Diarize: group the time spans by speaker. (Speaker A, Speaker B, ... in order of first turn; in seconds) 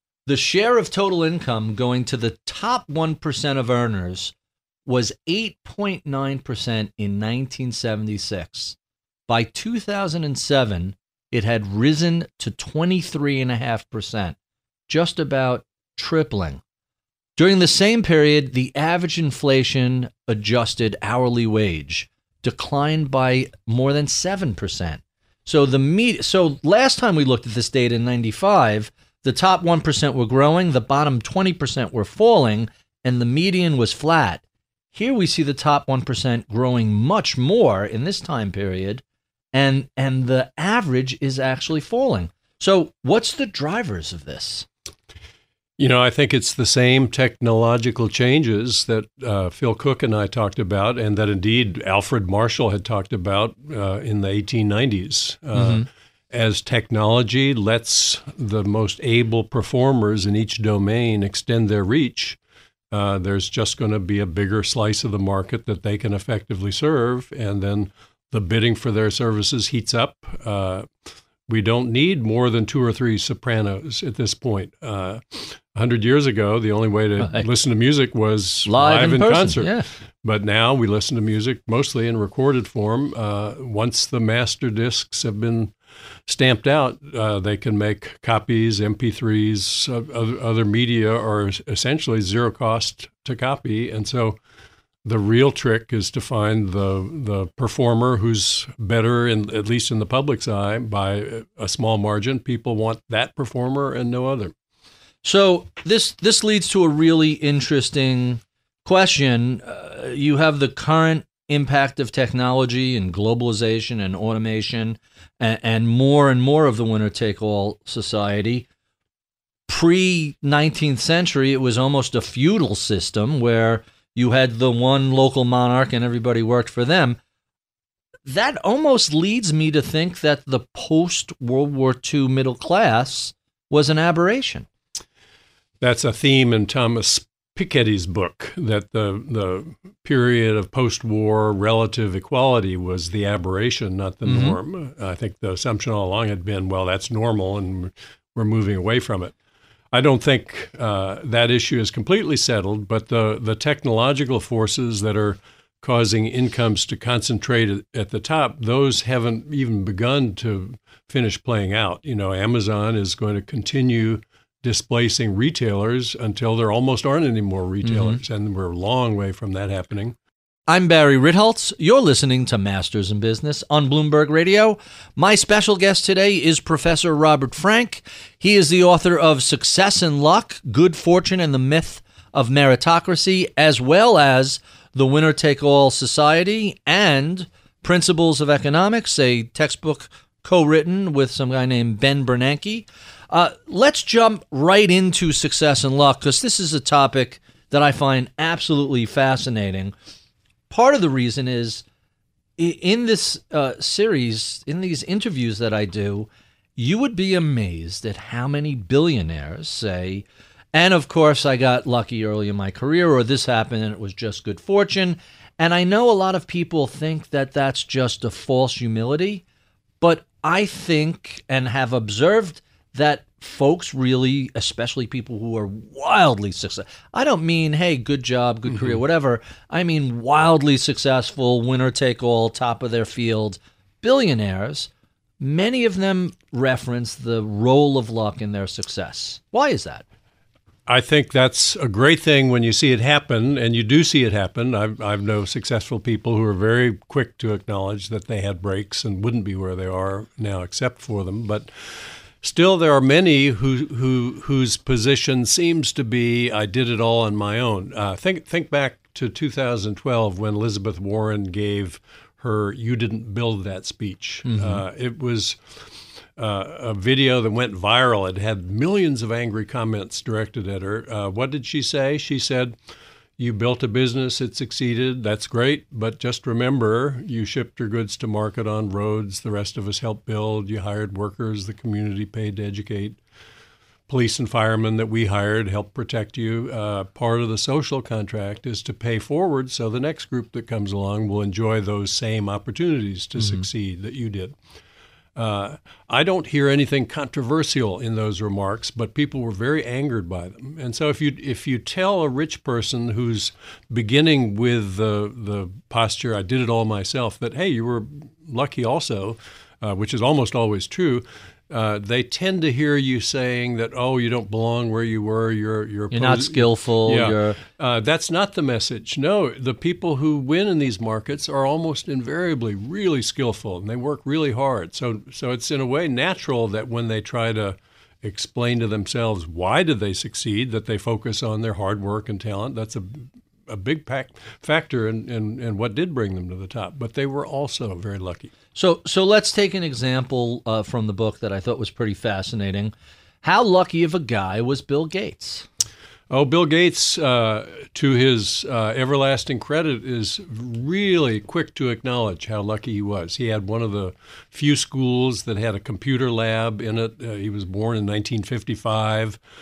Speaker A: 0.2-4.3, 4.8-8.8, 9.3-14.3, 14.9-16.6, 17.4-34.4, 34.9-44.7, 55.5-55.9, 77.2-77.5, 78.7-79.9, 105.2-118.7, 119.7-127.2, 128.3-134.7, 144.2-144.6, 167.8-168.2, 170.7-199.9, 200.7-201.8, 202.6-219.4, 220.0-240.0, 264.4-264.8, 293.4-293.6, 316.1-317.6, 338.7-345.6
Speaker B: 45.8-62.4, 62.9-70.9, 71.5-85.7, 86.3-94.4, 95.0-104.5, 135.8-149.3, 149.9-170.2, 240.9-272.8, 273.4-283.2, 284.1-294.6, 295.4-338.5, 346.3-359.4